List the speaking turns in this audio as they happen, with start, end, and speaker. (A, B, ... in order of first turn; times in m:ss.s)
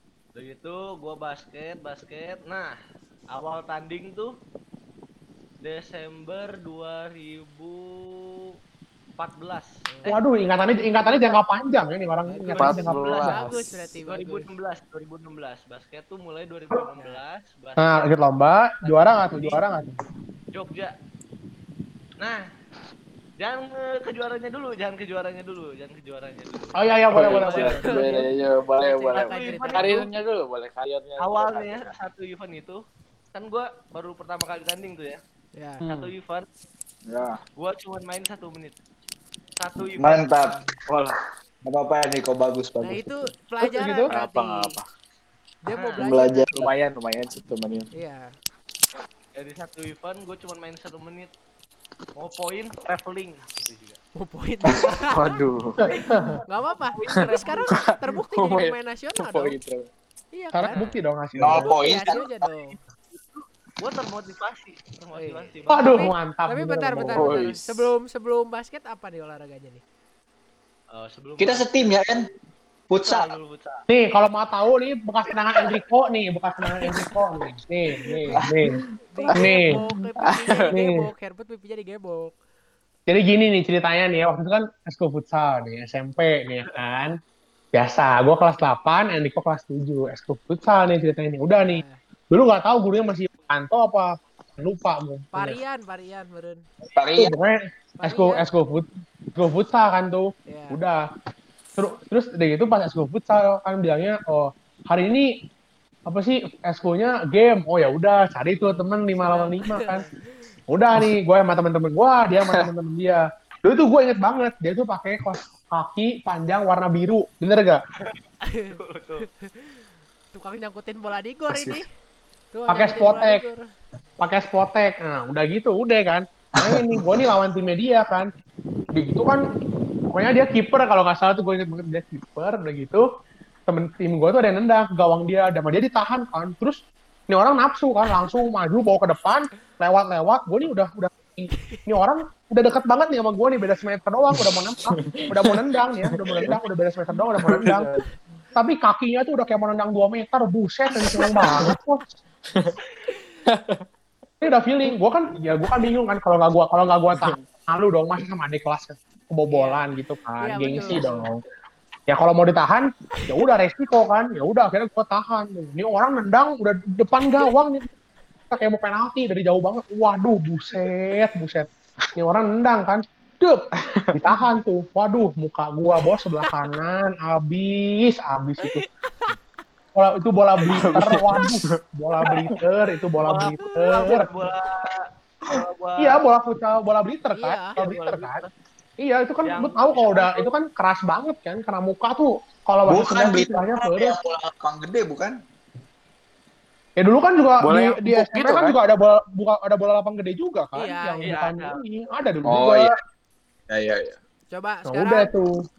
0:00.4-0:02.7 A
0:03.3-0:04.3 A
0:05.6-0:08.5 A
0:09.2-0:09.7 A
0:09.9-0:10.2 B
0:10.0-0:13.4 C
0:12.3-0:14.5 B
0:12.5-0:13.6 D
0:12.7-0:13.4 A
0:14.1-0:18.2 A
0:16.9-0:17.2 B
0:17.8-0:20.0 C
0:18.8-0:19.6 A
0:20.5-0:20.9 A
0:23.4-0:28.0 A
0:26.8-0:28.2 C
0:27.1-0:32.0 D
0:27.6-0:28.3 B
0:28.8-0:30.1 B
0:29.1-0:30.0 A
0:31.2-0:32.8 A
0:33.3-0:35.2 A
0:35.6-0:35.8 B
0:35.8-0:36.1 C
0:35.8-0:36.5 A
0:37.1-0:37.4 D
0:37.6-0:38.8 A
0:39.6-0:40.3 A
0:40.0-0:40.6 E
0:40.9-0:41.2 D
0:41.6-0:43.1 E
0:42.8-0:44.7 B
0:43.6-0:44.1 C
0:44.1-0:44.8 D
0:45.6-0:46.6 B
0:45.7-0:46.0 A
0:46.0-0:46.7 E
0:46.5-0:47.9 D
0:47.9-0:48.3 B
0:49.4-0:51.3 A
0:52.2-0:54.0 A
0:54.2-0:55.4 B
0:54.9-0:55.8 D
0:55.9-0:57.7 A
0:56.0-0:56.4 C
0:56.5-0:59.6 B
0:57.1-0:59.9 D
1:00.3-1:00.8 B
1:00.5-1:01.7 C
1:00.7-1:01.0 A
1:01.3-1:02.3 E
1:01.5-1:02.2 A
1:01.7-1:02.8 B
1:03.1-1:06.0 A
1:05.2-1:09.8 B
1:05.7-1:07.4 C
1:07.1-1:07.9 D
1:10.9-1:12.0 A
1:11.4-1:12.3 E
1:12.9-1:13.3 E
1:13.0-1:13.8 A
1:13.9-1:18.8 C
1:19.1-1:22.4 B
1:19.2-1:20.7 D
1:19.4-1:19.8 C
1:20.7-1:21.0 C
1:23.1-1:27.1 C
1:27.7-1:35.6 C
1:31.6-1:32.0 B
1:35.3-1:36.6 B
1:37.0-1:37.3 E
1:37.2-1:41.0 C
1:38.0-1:38.4 B
1:40.5-1:40.8 B
1:41.8-1:45.3 C
1:46.1-1:50.0 C
1:48.6-1:50.1 B
1:50.7-1:57.8 C
1:58.4-1:59.8 B
1:58.7-1:59.2 A
2:00.3-2:01.8 B
2:01.5-2:01.8 D
2:02.5-2:03.6 B
2:02.7-2:03.4 C
2:04.2-2:08.3 C
2:08.9-2:09.4 C
2:10.1-2:13.0 C
2:13.7-2:27.9 C
2:25.0-2:26.6 D
2:27.4-2:28.0 D
2:28.6-2:32.0 C
2:31.1-2:31.8 D
2:32.5-2:32.8 D
2:33.5-2:33.8 D
2:34.4-2:41.4 C
2:37.1-2:37.4 D
2:39.5-2:39.9 B
2:40.4-2:41.3 B
2:42.1-2:47.9 C
2:43.2-2:43.4 B
2:48.5-2:58.8 C
2:53.8-2:54.4 D
2:58.6-2:59.4 B
3:00.0-3:04.3 C
3:00.7-3:01.8 D
3:02.3-3:02.6 D
3:03.2-3:06.2 A
3:03.3-3:04.2 B
3:06.0-3:08.4 C
3:07.3-3:07.7 B
3:07.8-3:08.5 A
3:09.0-3:14.2 C
3:09.4-3:10.5 A
3:12.9-3:15.4 E
3:17.0-3:22.9 C
3:17.6-3:18.8 D
3:20.8-3:21.4 B
3:21.2-3:21.8 A
3:22.5-3:22.8 D
3:23.7-3:24.1 D
3:24.5-3:25.3 B
3:24.9-3:25.5 C